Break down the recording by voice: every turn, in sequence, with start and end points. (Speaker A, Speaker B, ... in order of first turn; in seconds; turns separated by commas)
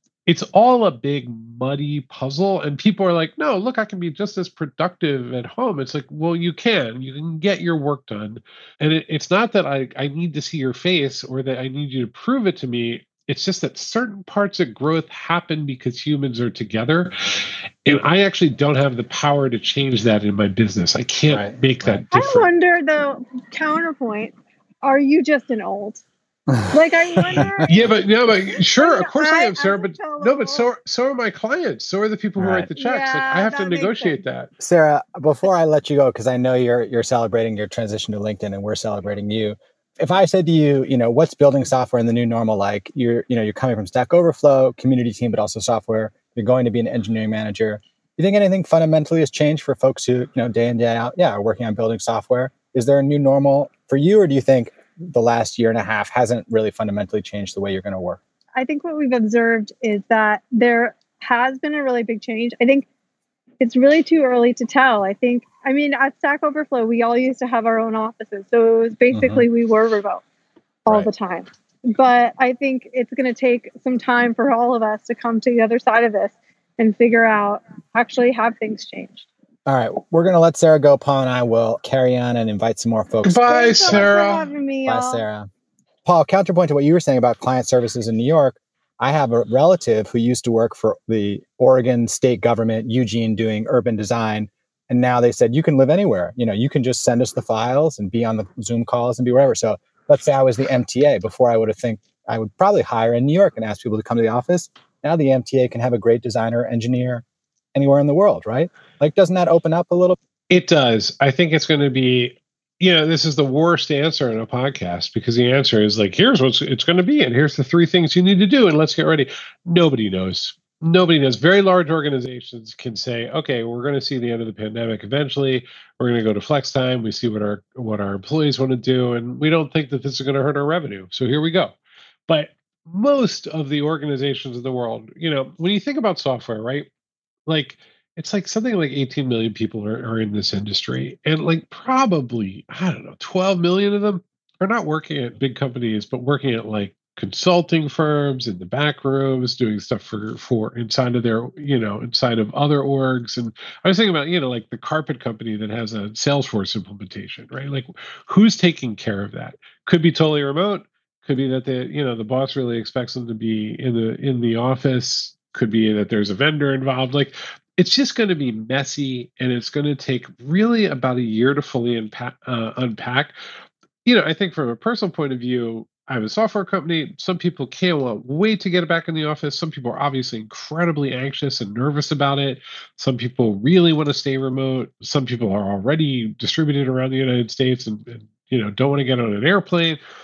Speaker A: 0.2-22.5, Speaker B: 21.3-22.1, Speaker C: 22.1-26.0, Speaker B: 26.5-26.7, Speaker C: 26.7-30.7, Speaker B: 27.3-27.8, Speaker A: 27.6-34.5, Speaker B: 32.4-32.7, Speaker C: 32.8-34.2, Speaker B: 34.6-58.2, Speaker C: 58.5-62.9, Speaker C: 63.6-70.2, Speaker B: 69.1-69.5, Speaker C: 70.8-79.2, Speaker B: 79.7-84.1, Speaker A: 83.2-84.5, Speaker C: 83.4-85.2, Speaker B: 84.8-85.5, Speaker B: 86.0-110.2, Speaker A: 110.5-131.8, Speaker A: 132.3-136.9, Speaker A: 137.5-173.3, Speaker A: 174.0-190.0